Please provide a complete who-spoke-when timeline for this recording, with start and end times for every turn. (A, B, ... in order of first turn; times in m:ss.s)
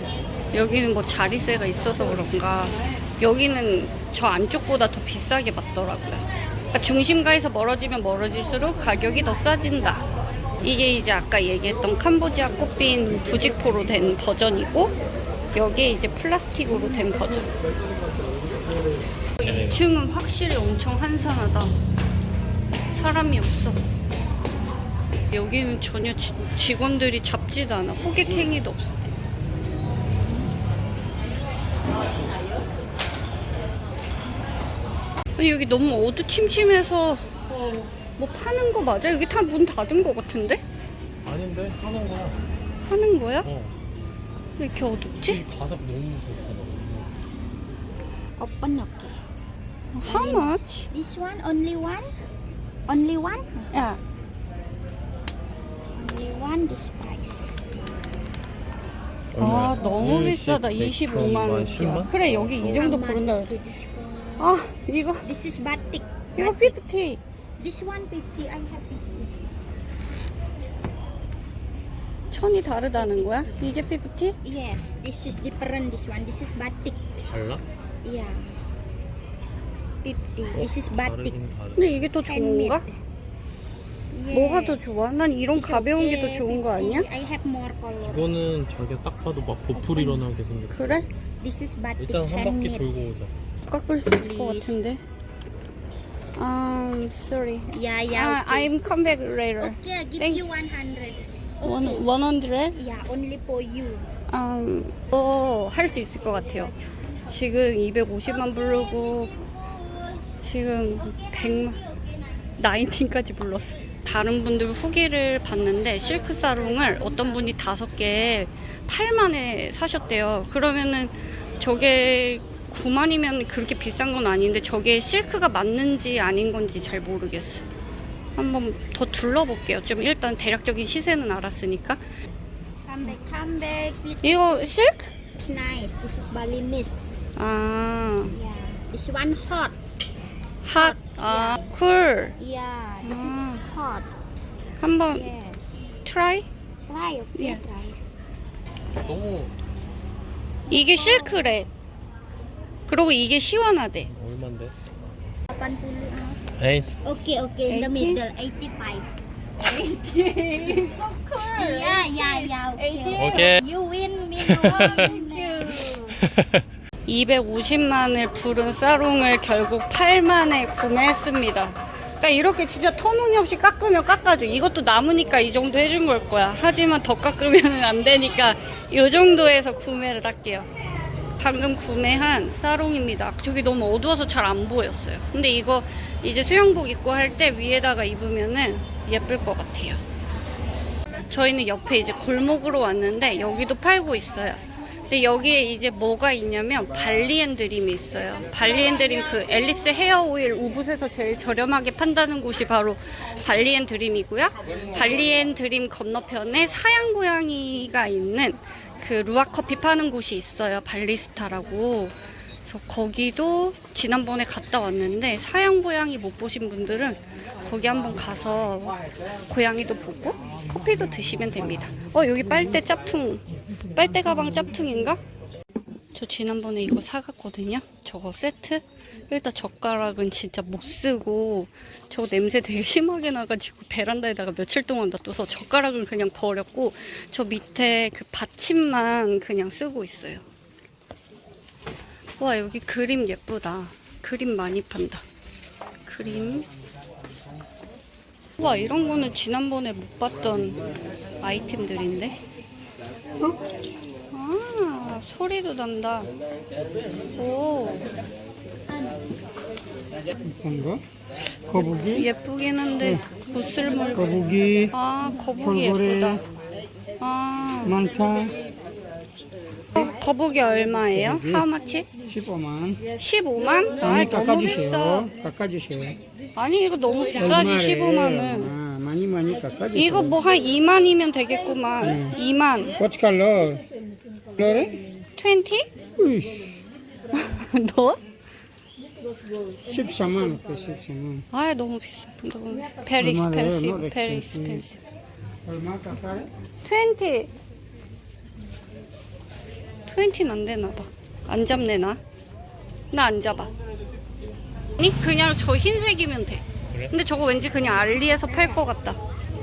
0:00.5-0:10.1 A
0:10.6-0:14.9 A
0:15.5-0:17.5 A
0:19.4-0:21.7 A
0:19.4-0:19.8 B
0:22.9-0:23.8 A
0:25.3-0:29.0 A
0:35.4-0:37.2 A
0:38.2-0:40.6 A
0:41.2-0:42.4 B
0:42.8-0:43.5 A
0:43.4-0:43.7 B
0:44.6-0:45.4 A
0:45.3-0:47.1 B
0:48.4-0:49.2 C
0:49.9-0:50.8 A
0:50.0-0:52.1 C
0:52.9-0:53.7 C
0:53.7-0:54.0 A
0:56.0-0:57.7 C
0:59.3-1:02.9 B
0:59.4-1:03.5 A
1:01.4-1:02.0 C
1:02.7-1:04.5 C
1:04.4-1:05.2 A
1:05.2-1:06.8 C
1:06.4-1:07.2 A
1:07.6-1:09.5 C
1:12.3-1:14.4 A
1:14.4-1:17.3 C
1:17.3-1:17.6 B
1:18.0-1:18.6 C
1:20.0-1:21.3 C
1:20.5-1:22.0 B
1:21.8-1:22.8 A
1:22.3-1:23.0 C
1:24.1-1:24.9 C
1:24.3-1:27.1 A
1:25.5-1:28.4 C
1:28.0-1:31.0 B
1:29.7-1:30.2 C
1:30.7-1:31.1 A
1:31.4-1:32.9 C
1:32.0-1:33.3 B
1:33.7-1:35.0 A
1:34.1-1:34.8 C
1:36.4-1:40.4 A
1:37.7-1:38.7 C
1:39.6-1:42.1 C
1:41.6-1:42.8 A
1:42.8-1:44.1 C
1:44.3-1:46.7 A
1:47.3-1:49.3 A
1:48.4-1:50.2 C
1:50.4-1:51.8 A
1:51.0-1:52.2 C
1:52.6-2:07.6 A
1:56.2-1:57.5 C
2:08.4-2:12.0 A
2:12.8-2:14.7 C
2:14.2-2:15.1 A
2:15.3-2:17.3 C
2:17.4-2:18.4 A
2:18.3-2:19.8 C
2:20.6-2:22.3 A
2:20.7-2:21.6 C
2:22.4-2:24.1 C
2:23.0-2:23.6 A
2:24.8-2:25.3 A
2:25.1-2:26.0 C
2:26.0-2:26.5 A
2:26.9-2:28.0 C
2:27.3-2:27.6 A
2:29.0-2:29.5 B
2:30.7-2:31.5 C
2:30.7-2:31.7 A
2:32.9-2:34.1 A
2:34.1-2:34.7 B
2:35.5-2:36.4 C
2:36.5-2:36.9 B
2:37.0-2:39.1 C
2:37.7-2:38.2 A
2:40.6-2:46.2 C
2:41.6-2:43.5 A
2:43.1-2:43.6 B
2:44.4-2:45.1 B
2:45.8-2:46.7 B
2:47.1-3:00.7 A
3:01.4-3:10.0 A
3:11.3-3:39.0 A
3:39.5-3:43.4 A
3:43.9-3:45.2 A
3:46.1-4:00.4 A
4:02.4-4:05.2 A
4:06.0-4:06.7 A
4:08.6-4:10.8 A
4:11.4-4:12.4 A
4:14.3-4:16.3 A
4:17.4-4:18.1 A
4:20.4-4:21.0 D
4:21.7-4:22.3 D
4:21.7-4:24.4 A
4:24.1-4:24.9 D
4:24.9-4:26.4 A
4:25.6-4:26.4 D
4:27.2-4:28.0 A
4:27.8-4:28.5 D
4:29.9-4:32.1 A
4:31.1-4:31.7 D
4:32.2-4:33.0 D
4:33.2-4:35.3 A
4:34.0-4:36.2 D
4:36.6-4:38.7 A
4:37.3-4:40.4 D
4:39.9-4:43.0 A
4:42.0-4:42.4 D
4:43.0-4:43.8 D
4:44.6-4:45.0 D
4:45.4-4:45.9 A
4:46.2-4:46.8 D
4:47.3-4:48.2 A
4:49.8-4:51.4 D
4:51.5-4:55.0 A
4:53.2-4:54.8 D
4:55.6-4:56.5 D
4:56.8-4:57.5 A
5:00.1-5:02.2 A
5:03.1-5:03.7 A
5:05.0-5:09.2 A